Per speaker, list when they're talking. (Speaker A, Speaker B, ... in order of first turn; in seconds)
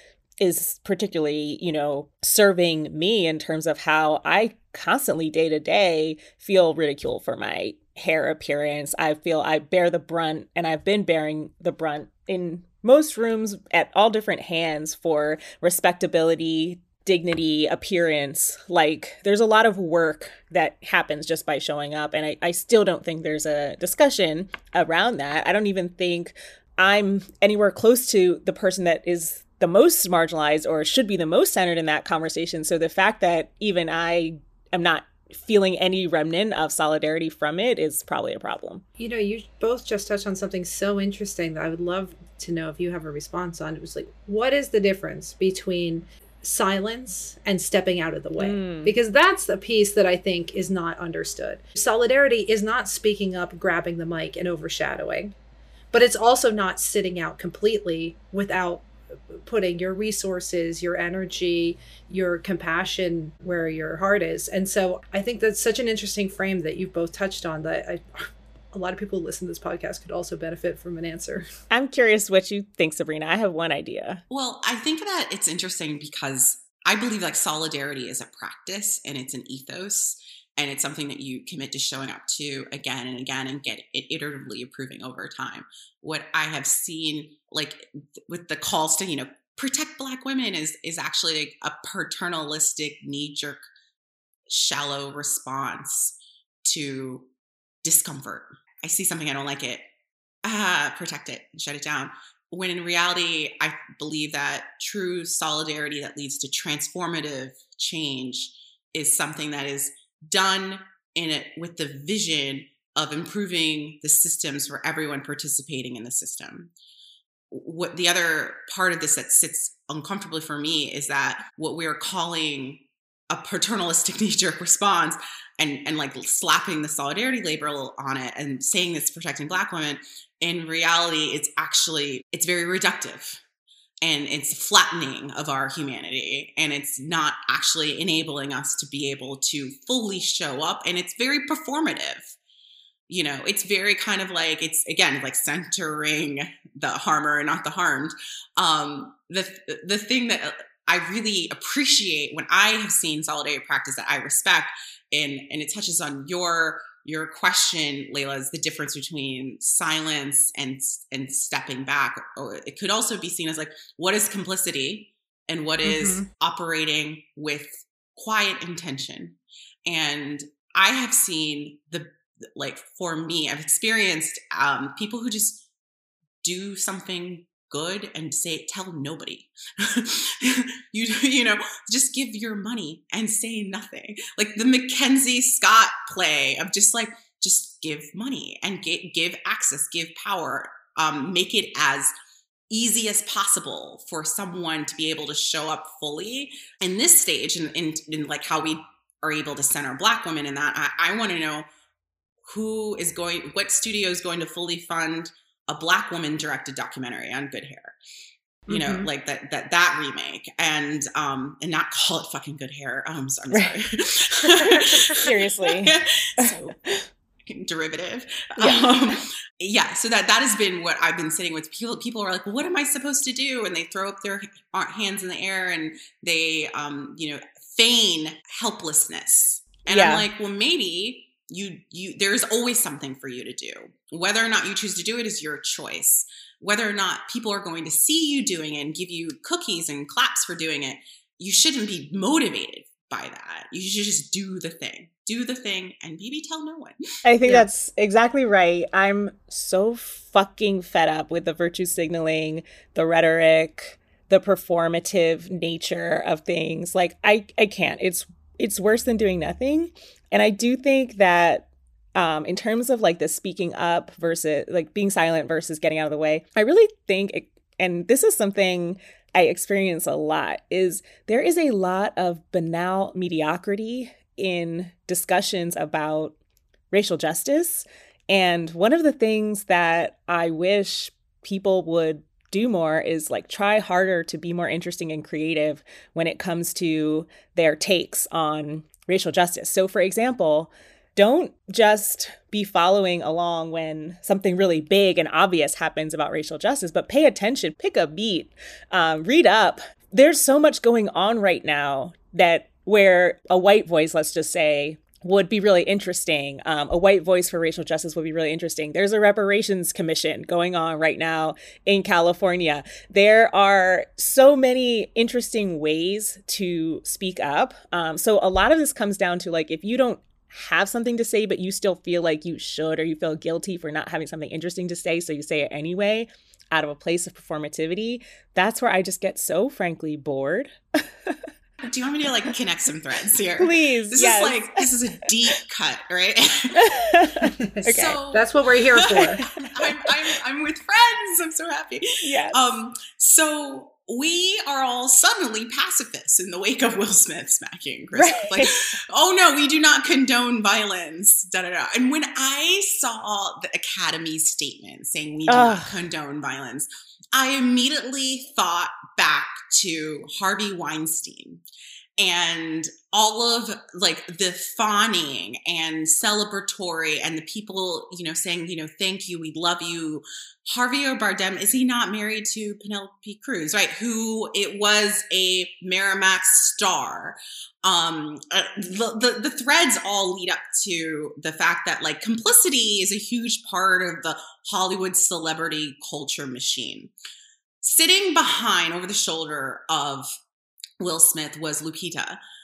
Speaker A: 0.4-38.8, 48.4-48.9, 71.7-74.2, 213.5-217.0, 218.6-218.9, 229.9-230.2, 247.2-276.4, 276.9-331.4, 333.6-334.9, 336.7-338.2, 339.4-340.1, 342.2-342.7, 348.1-348.7, 355.5-355.9
Speaker B: 39.0-55.3, 55.9-71.5, 165.8-166.2, 208.7-209.1, 337.6-339.4
Speaker C: 74.3-93.6, 94.5-97.3, 97.8-99.8, 100.4-116.7, 117.5-133.4, 134.0-142.3, 143.1-175.6, 176.4-192.1, 192.7-201.7, 202.4-207.9, 208.7-216.7, 217.4-247.0, 331.8-336.9, 337.8-361.6, 362.2-387.1, 387.8-390.3, 391.0-392.4